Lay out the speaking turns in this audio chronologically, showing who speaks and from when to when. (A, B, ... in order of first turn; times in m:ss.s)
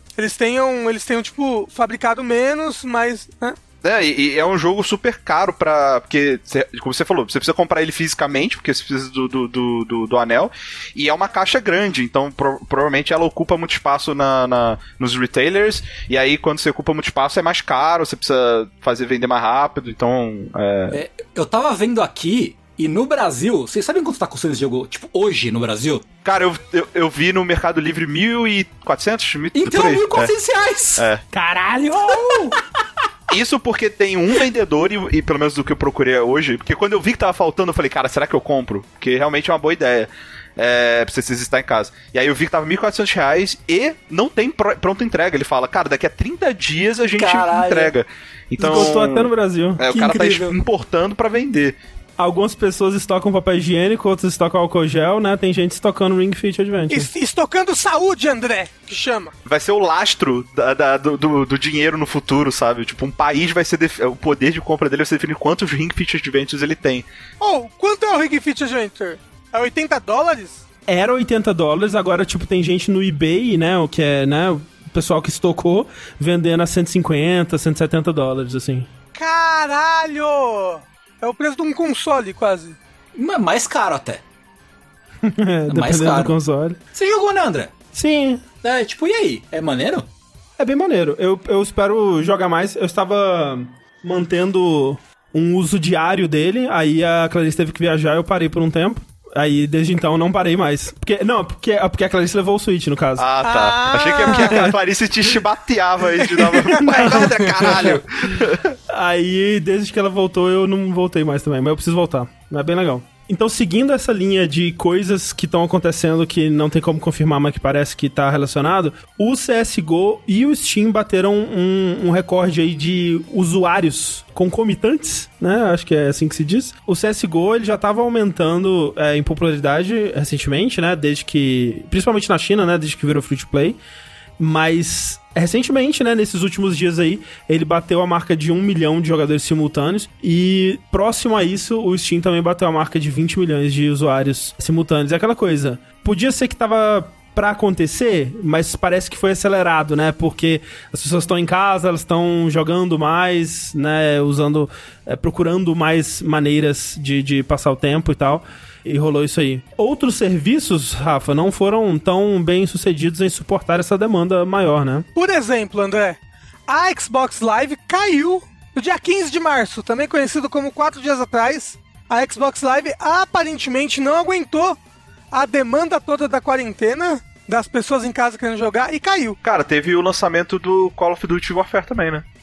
0:00.2-0:03.6 A
0:03.8-0:21.0 B
0:20.9-0:26.0 C
0:26.2-0:30.3 B
0:29.5-0:31.0 C
0:31.0-0:31.2 B
0:31.3-0:32.6 D
0:32.1-0:32.6 C
0:33.3-0:51.8 B
0:47.2-0:47.9 C
0:48.6-0:49.8 D
0:49.9-0:50.6 C
0:52.2-0:57.1 D
0:56.9-0:59.3 A
0:59.5-1:07.1 B
1:07.4-1:10.6 A
1:10.9-1:18.9 D
1:19.2-1:22.8 A
1:23.2-1:24.2 C
1:25.2-1:26.8 D
1:25.7-1:26.4 C
1:26.9-1:27.7 C
1:27.9-1:28.4 D
1:28.6-1:30.1 C
1:30.6-1:43.3 D
1:43.2-1:48.8 B
1:43.4-1:44.7 A
1:44.3-1:44.7 D
1:46.2-1:47.2 A
1:46.7-1:47.9 D
1:47.6-1:48.0 C
1:48.9-2:13.8 D
2:14.4-2:45.1 D
2:45.2-2:54.8 A
2:55.3-2:59.4 A
2:59.4-3:02.2 B